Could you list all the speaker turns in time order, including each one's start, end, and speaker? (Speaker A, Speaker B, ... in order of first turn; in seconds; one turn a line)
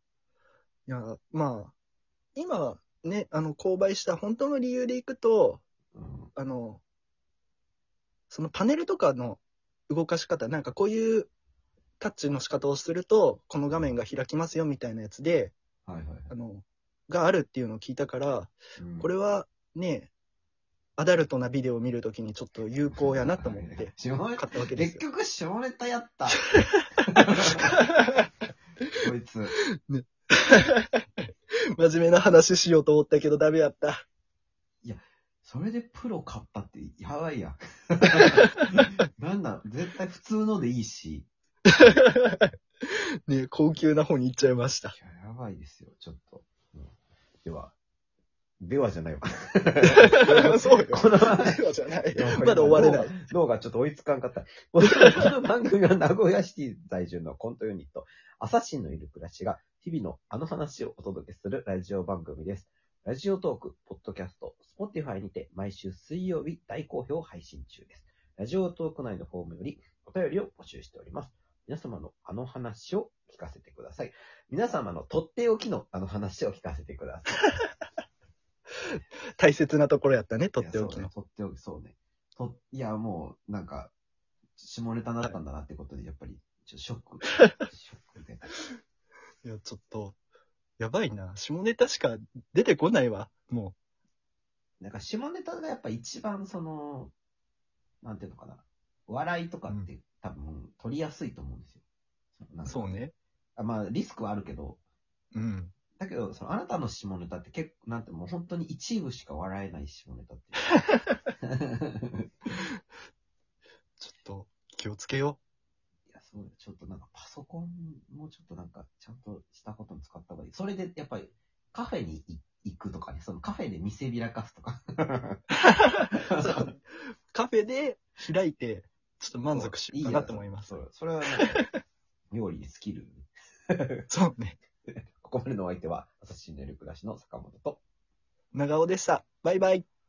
Speaker A: 0.9-1.7
Speaker A: 2.4-5.6
Speaker B: 5.9-6.3
Speaker A: 6.3-6.8
Speaker A: 8.3-11.3
Speaker A: 12.0-15.5
Speaker B: 15.9-16.3
Speaker A: 16.3-20.1
Speaker B: 18.8-19.1
Speaker A: 21.0-25.0
Speaker B: 22.9-26.5
Speaker A: 26.6-26.9
Speaker B: 27.1-27.7
Speaker A: 27.4-28.3
Speaker B: 29.0-29.6
Speaker A: 29.6-34.0
Speaker B: 34.8-41.3
Speaker A: 41.7-45.0
Speaker B: 44.9-46.9
Speaker B: 47.4-47.7
Speaker B: 48.6-77.5
Speaker A: 49.8-53.2
Speaker A: 79.4-81.1
Speaker B: 80.6-83.9
Speaker B: 84.6-88.5
Speaker A: 89.4-90.2
Speaker A: 90.8-93.8
Speaker B: 94.8-97.1
Speaker B: 98.0-101.8
Speaker B: 102.4-102.9
Speaker A: 102.7-103.2
Speaker B: 103.6-104.8
Speaker A: 105.3-105.7
Speaker B: 106.0-110.8
Speaker B: 111.4-112.3
Speaker A: 114.0-115.4
Speaker B: 116.1-125.4
Speaker A: 125.7-130.8
Speaker B: 126.1-126.7
Speaker B: 129.5-131.7
Speaker B: 132.3-134.1
Speaker A: 134.1-134.6
Speaker B: 135.2-137.8
Speaker A: 138.5-139.9